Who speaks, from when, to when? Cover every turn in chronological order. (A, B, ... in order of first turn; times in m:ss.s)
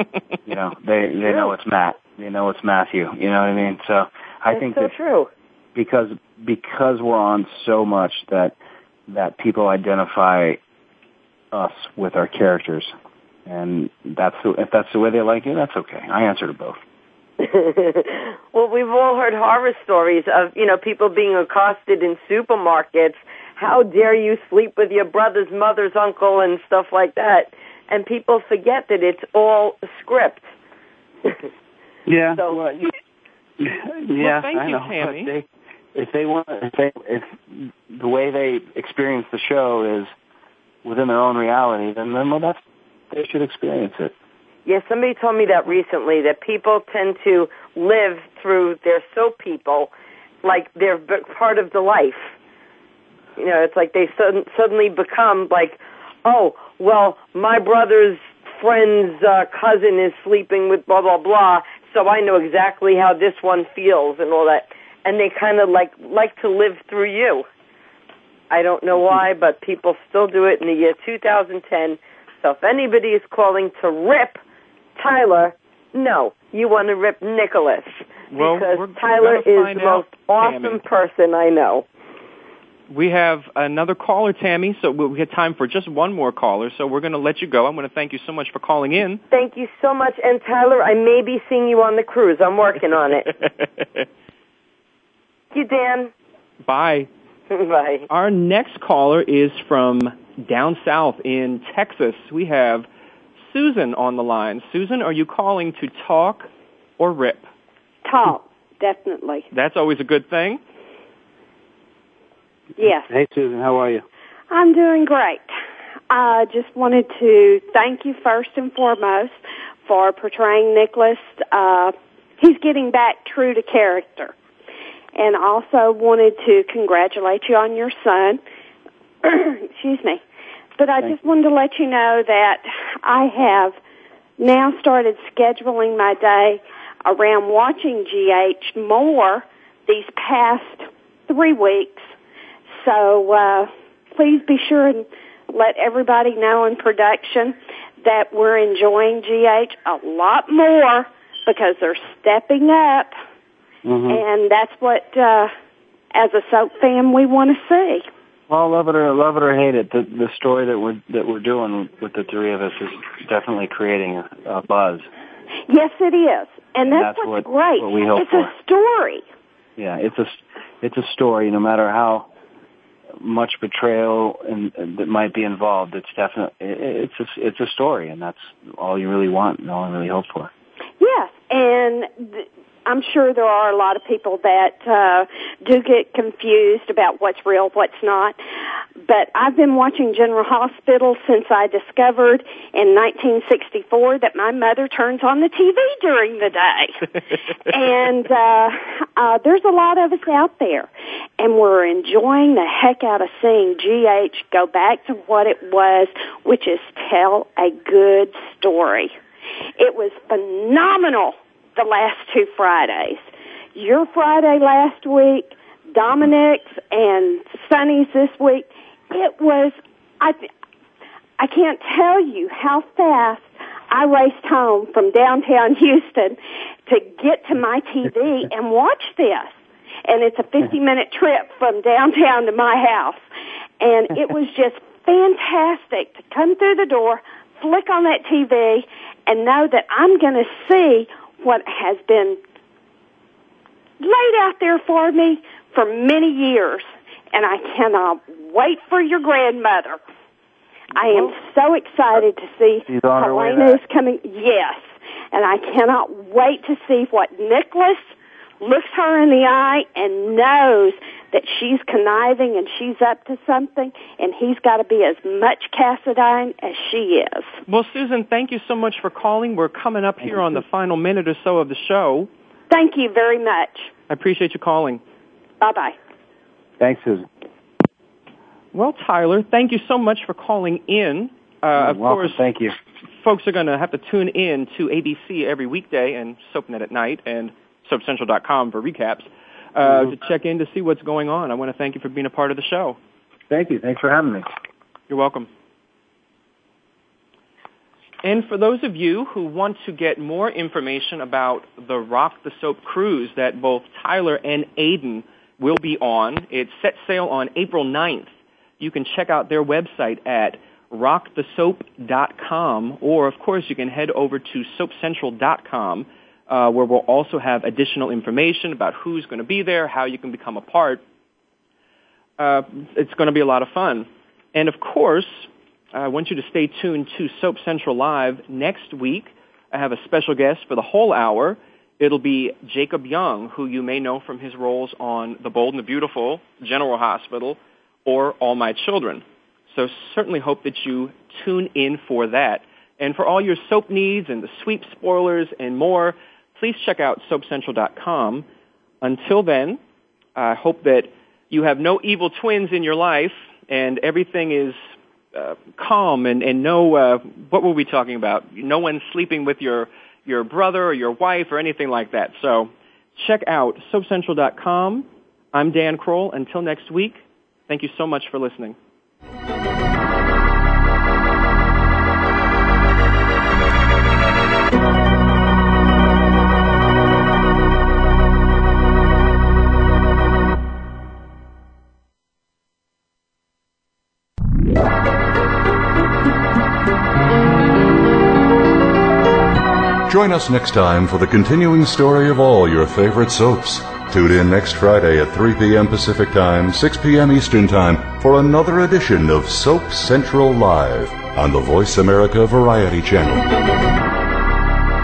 0:00.4-0:04.9 A
0:01.2-0:01.5 B
0:04.5-0:05.3 B
0:05.7-0:08.5 A
0:09.1-0:10.6 A
0:11.5-0:12.9 A
0:13.4-0:16.8 A
0:17.4-0:30.5 B
0:32.1-0:32.9 A
0:32.3-0:32.6 B
0:33.6-0:40.1 A
0:34.2-0:35.3 C
0:40.8-0:44.1 A
0:44.6-0:49.9 B
0:50.4-0:52.3 B
0:53.4-1:07.4 B
1:08.5-1:14.4 B
1:15.0-1:21.8 B
1:18.3-1:20.8 C
1:22.9-1:29.2 C
1:29.3-1:33.3 B
1:35.5-1:36.1 B
1:36.6-1:37.1 C
1:37.5-1:38.0 B
1:38.1-1:42.9 C
1:43.4-1:47.5 C
1:48.0-1:49.4 D
1:49.5-1:50.6 C
1:52.8-1:53.1 D
1:52.9-1:54.0 A
1:54.5-1:55.5 D
1:56.1-2:04.3 D
2:05.2-2:08.4 D
2:09.2-2:10.2 D
2:10.8-2:13.8 D
2:14.4-2:22.1 D
2:22.7-2:33.1 D
2:33.8-2:34.2 A
2:34.1-2:35.5 D
2:36.1-2:38.0 D
2:38.5-2:45.1 A
2:45.7-2:49.2 D
2:46.9-2:48.5 A
2:49.8-2:52.3 A
2:53.2-3:00.5 A
3:01.0-3:08.4 D
3:09.0-3:17.1 D
3:17.6-3:29.1 D
3:29.8-3:40.4 D
3:41.4-3:49.5 D
3:50.0-3:53.2 D
3:53.8-4:02.4 D
4:04.0-4:10.0 D
4:10.9-4:27.6 D
4:12.9-4:13.8 A
4:27.7-4:32.3 C
4:30.2-4:30.6 A
4:32.7-4:33.9 D
4:34.1-4:35.0 C
4:35.6-4:35.9 D
4:36.8-4:37.2 A
4:38.7-4:42.4 C
4:41.8-4:42.8 A
4:43.2-4:53.0 C
4:49.8-4:50.2 A
4:53.5-4:54.4 A
4:55.1-4:55.5 C
4:58.2-5:21.0 C
5:22.4-5:48.4 C
5:49.0-5:49.8 C
5:50.4-5:54.8 C
5:55.3-6:08.8 C
6:30.0-6:43.5 E